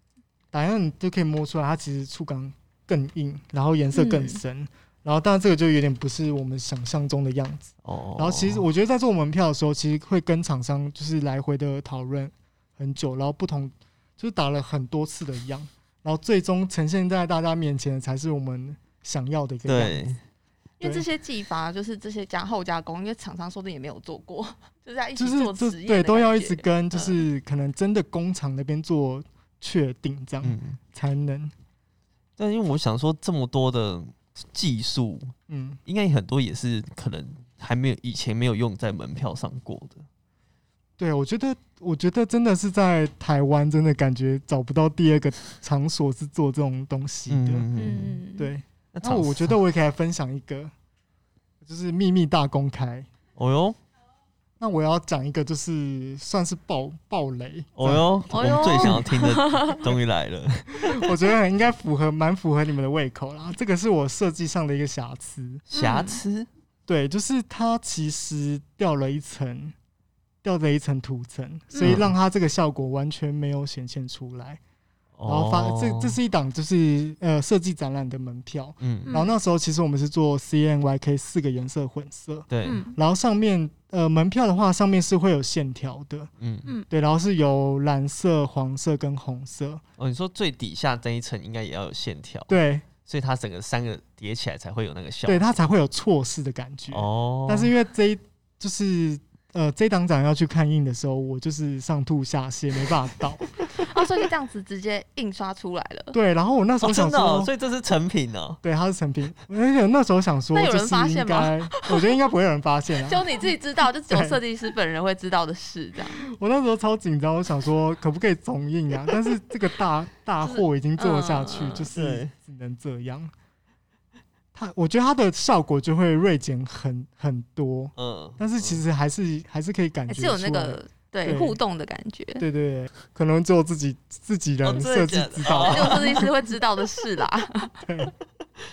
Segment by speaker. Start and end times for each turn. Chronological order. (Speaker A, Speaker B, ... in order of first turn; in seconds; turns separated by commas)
Speaker A: 0.5-20.0, Speaker B: 4.0-4.4, Speaker C: 7.8-8.6, Speaker C: 19.7-20.2, Speaker B: 20.8-27.2, Speaker A: 25.2-31.5, Speaker C: 30.4-30.8, Speaker C: 32.4-35.3, Speaker A: 35.5-35.8, Speaker C: 35.9-40.0, Speaker A: 41.0-47.7, Speaker C: 47.3-48.2, Speaker B: 47.8-48.5, Speaker A: 48.4-50.7, Speaker C: 48.9-49.5, Speaker A: 51.6-53.1, Speaker C: 53.4-53.8, Speaker A: 54.6-58.1, Speaker C: 57.8-61.1, Speaker B: 58.3-59.9, Speaker A: 60.8-65.6, Speaker C: 65.7-66.5, Speaker B: 65.8-66.2, Speaker A: 66.9-69.7, Speaker A: 70.4-74.6, Speaker B: 71.7-72.0, Speaker C: 71.8-72.1, Speaker C: 75.2-76.2, Speaker A: 75.3-86.3, Speaker C: 78.8-79.1, Speaker B: 79.1-79.3, Speaker C: 82.5-82.8, Speaker B: 82.6-83.0, Speaker C: 86.4-86.7, Speaker A: 86.9-89.8, Speaker C: 90.0-95.6, Speaker A: 92.5-92.9, Speaker A: 95.3-103.5, Speaker C: 96.9-97.7, Speaker B: 103.7-106.1, Speaker C: 103.8-104.1, Speaker A: 106.1-107.5, Speaker C: 106.8-108.6, Speaker A: 108.6-113.3, Speaker B: 110.5-112.1, Speaker B: 113.0-116.2, Speaker A: 114.1-114.4, Speaker A: 116.2-123.3, Speaker B: 120.4-121.9, Speaker C: 121.9-122.3, Speaker A: 124.5-131.6, Speaker C: 128.0-128.8, Speaker B: 130.1-132.4, Speaker A: 132.4-136.2, Speaker C: 134.6-136.3, Speaker B: 135.6-137.9, Speaker A: 137.9-138.1